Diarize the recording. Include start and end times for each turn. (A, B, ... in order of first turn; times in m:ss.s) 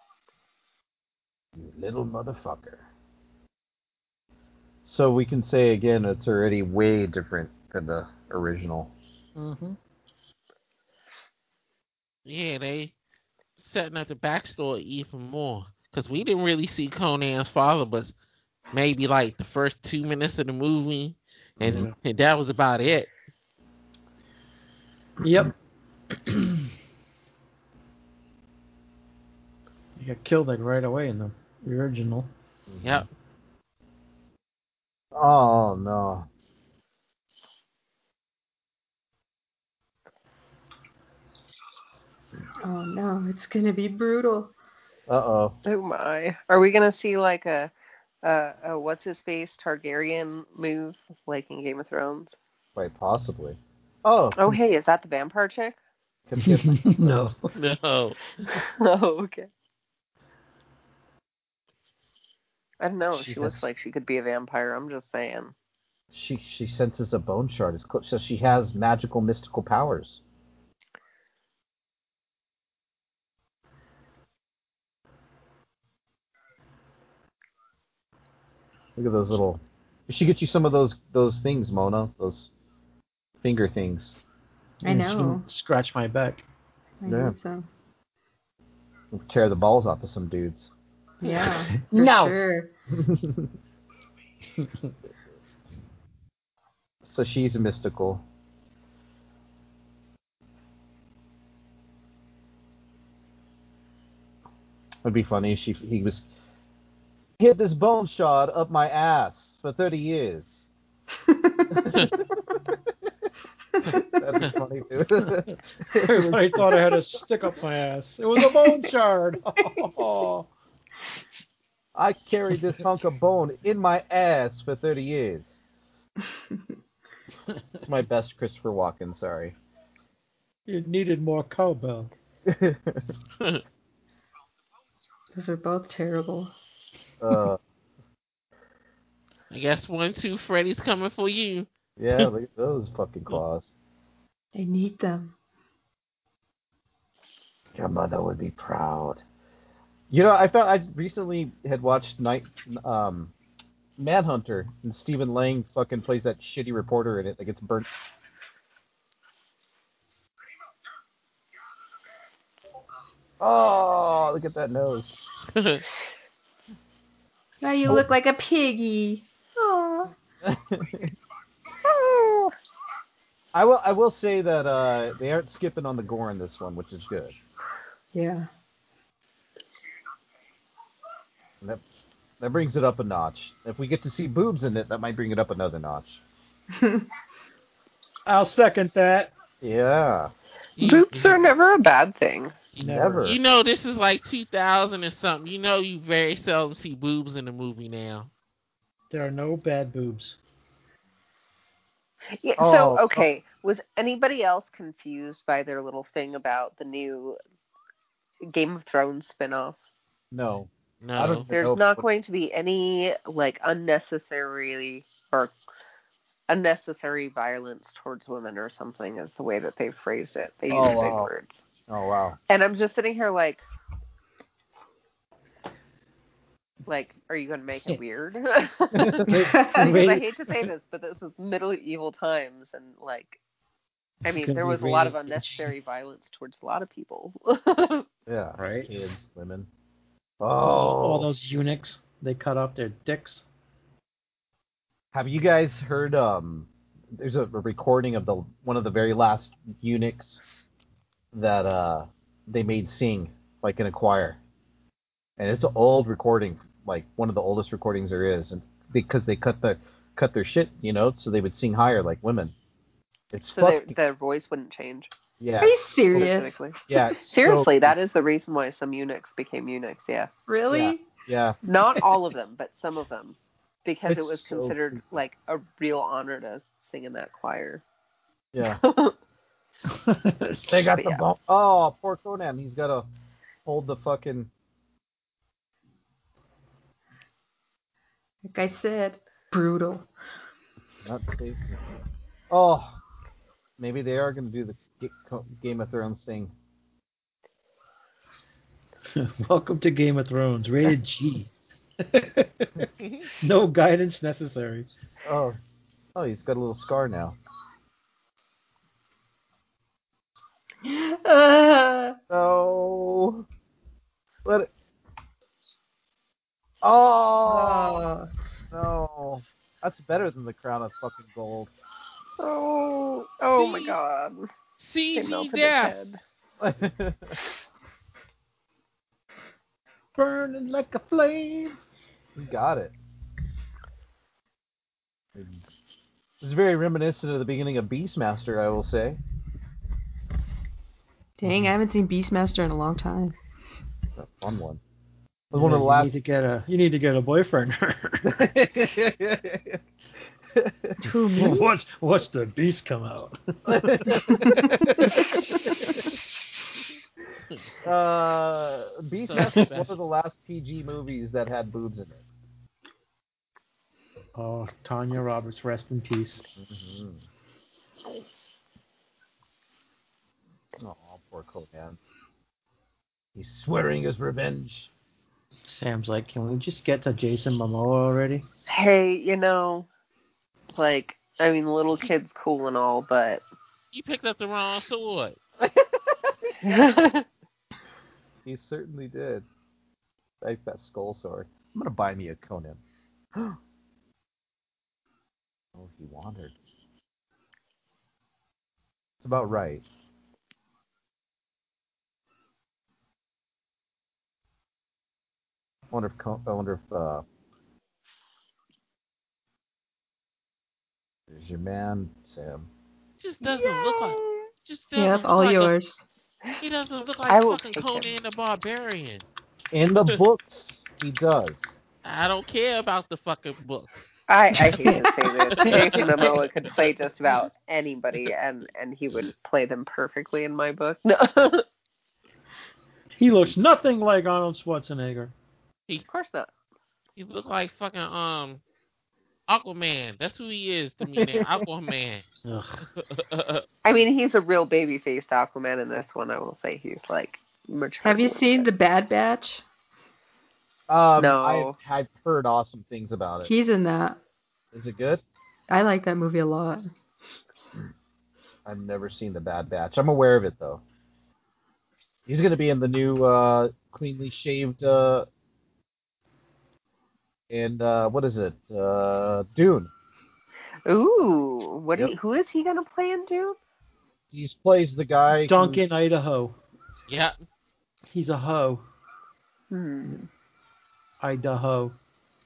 0:01.6-0:02.9 A
0:04.8-0:08.9 A
0:09.4-0:09.8 B
0:12.3-0:12.9 C
0:13.6-0:18.1 C
0:18.7-0:23.1 C
0:21.6-0:21.9 A
0:25.2-0:25.5 B
0:26.3-0:26.6 B
0:30.0-0:32.3 B
0:32.7-0:33.1 A
0:35.1-0:36.3 A
0:42.6-0:44.5 D
0:45.1-0:45.6 A
0:45.6-0:47.7 E
0:48.2-0:52.4 E
0:52.8-0:54.4 A
0:54.4-0:55.8 E
0:56.3-0:57.2 A
0:56.4-0:57.5 B
0:57.6-0:58.5 C
0:58.5-0:59.5 E
1:02.8-1:05.5 E
1:03.1-1:03.6 A
1:06.1-1:10.2 A
1:19.0-1:22.5 A
1:23.4-1:24.2 A
1:24.8-1:25.4 D
1:24.8-1:26.4 B
1:27.0-1:27.7 D
1:27.1-1:27.4 A
1:29.1-1:30.7 A
1:31.2-1:32.7 D
1:31.3-1:32.4 B
1:32.9-1:33.5 A
1:37.0-1:38.2 A
1:45.0-1:46.3 A
1:47.4-1:50.7 A
1:51.3-1:51.9 D
1:51.8-1:52.2 A
1:54.0-1:56.7 A
1:56.0-2:00.5 B
2:02.0-2:05.6 A
2:07.9-2:09.6 A
2:10.7-2:12.1 B
2:12.5-2:13.1 A
2:15.3-2:16.5 D
2:17.2-2:17.6 A
2:19.5-2:22.3 C
2:22.0-2:23.8 A
2:24.6-2:25.3 D
2:27.8-2:29.2 A
2:30.1-2:33.3 A
2:34.0-2:37.9 A
2:43.4-2:45.2 A
2:45.5-2:45.8 C
2:47.6-2:50.1 D
2:50.4-2:51.1 A
2:51.8-2:52.5 E
2:53.5-2:57.4 A
2:58.1-2:58.5 D
3:02.4-3:06.2 A
3:06.8-3:07.1 D
3:08.3-3:09.3 B
3:09.6-3:10.3 A
3:10.8-3:11.5 C
3:10.8-3:12.6 E
3:12.8-3:18.3 C
3:12.8-3:13.3 B
3:12.8-3:13.4 A
3:19.1-3:20.4 B
3:22.3-3:27.4 E
3:22.6-3:23.3 A
3:28.4-3:29.8 E
3:30.3-3:32.0 A
3:31.0-3:31.5 C
3:31.5-3:35.5 E
3:36.5-3:41.6 E
3:40.7-3:41.3 A
3:41.9-3:42.4 A
3:42.5-3:43.6 E
3:46.9-3:49.3 E
3:48.9-3:50.7 B
3:49.3-3:50.0 D
3:49.8-3:53.4 E
3:54.2-3:58.1 E
3:54.2-3:55.7 B
3:58.3-3:59.7 A
3:58.6-3:58.9 B
4:00.4-4:01.3 A
4:01.0-4:03.4 B
4:05.1-4:10.4 A
4:11.3-4:14.4 A
4:15.4-4:22.6 A
4:23.3-4:23.9 A
4:23.5-4:25.1 E
4:25.4-4:26.3 A
4:25.6-4:26.6 D
4:26.2-4:30.3 E
4:26.9-4:27.9 A
4:30.5-4:31.1 D
4:30.7-4:31.6 A
4:31.6-4:37.8 E
4:34.1-4:35.0 A
4:38.5-4:38.8 A
4:38.6-4:39.2 E
4:39.9-4:40.8 B
4:40.7-4:43.1 A
4:40.9-4:41.2 E
4:43.7-4:44.5 A
4:48.5-4:50.1 D
4:51.0-4:51.8 A
4:52.5-4:53.0 A
4:53.8-4:56.5 A
4:59.2-5:02.9 B
5:03.0-5:03.3 C
5:03.4-5:04.9 B
5:05.2-5:05.6 A
5:06.2-5:07.4 A
5:10.8-5:12.2 D
5:12.3-5:13.4 A
5:14.4-5:14.7 A
5:16.8-5:18.1 A
5:17.4-5:18.3 D
5:18.7-5:21.7 A
5:22.4-5:24.5 E
5:23.5-5:24.0 C
5:24.8-5:26.0 C
5:25.2-5:26.2 E
5:26.6-5:27.4 A
5:30.2-5:31.8 B
5:32.4-5:33.0 A
5:35.4-5:35.6 A
5:36.4-5:39.2 A
5:41.4-5:43.4 D
5:41.5-5:41.7 B
5:44.2-5:44.8 A
5:45.5-5:46.1 A
5:45.5-5:48.4 B
5:48.2-5:49.8 A
5:50.5-5:51.0 A
5:51.0-5:51.7 D
5:51.3-5:55.9 B
5:53.7-5:54.8 A
5:57.8-6:02.2 A
5:59.2-5:59.9 C
6:04.4-6:06.5 B
6:06.6-6:07.2 A
6:10.8-6:12.0 A
6:13.4-6:14.9 A
6:15.7-6:18.5 B
6:18.7-6:19.9 E
6:20.8-6:23.4 E
6:23.9-6:25.4 C
6:25.6-6:26.8 A
6:26.6-6:27.2 E
6:28.5-6:29.5 A
6:30.4-6:32.8 A
6:35.8-6:36.6 A
6:39.2-6:39.8 A
6:45.9-6:47.2 A
6:51.3-6:52.7 A
6:53.2-6:55.7 C
6:53.9-6:54.5 E
6:55.0-6:56.0 D
6:56.6-6:59.2 C
6:57.3-6:58.1 E
6:59.7-7:01.8 A
7:02.0-7:04.0 C
7:04.3-7:11.6 E
7:05.5-7:06.4 C
7:13.2-7:15.3 B
7:16.0-7:16.5 E
7:17.2-7:18.6 C
7:19.5-7:22.2 C
7:21.2-7:21.6 A
7:22.4-7:22.8 B
7:23.0-7:23.6 C
7:23.8-7:28.7 E
7:28.0-7:29.6 D
7:30.9-7:33.5 A
7:31.2-7:31.8 E
7:33.4-7:34.2 D
7:34.7-7:35.2 A
7:35.7-7:36.9 D
7:38.6-7:40.8 A
7:42.3-7:45.3 A
7:47.5-7:49.9 A
7:50.9-7:53.6 E
7:54.3-7:55.8 A
7:55.4-7:56.6 B
7:57.1-7:57.4 C
7:58.1-7:58.8 B
7:59.7-8:00.3 E
8:01.2-8:02.0 B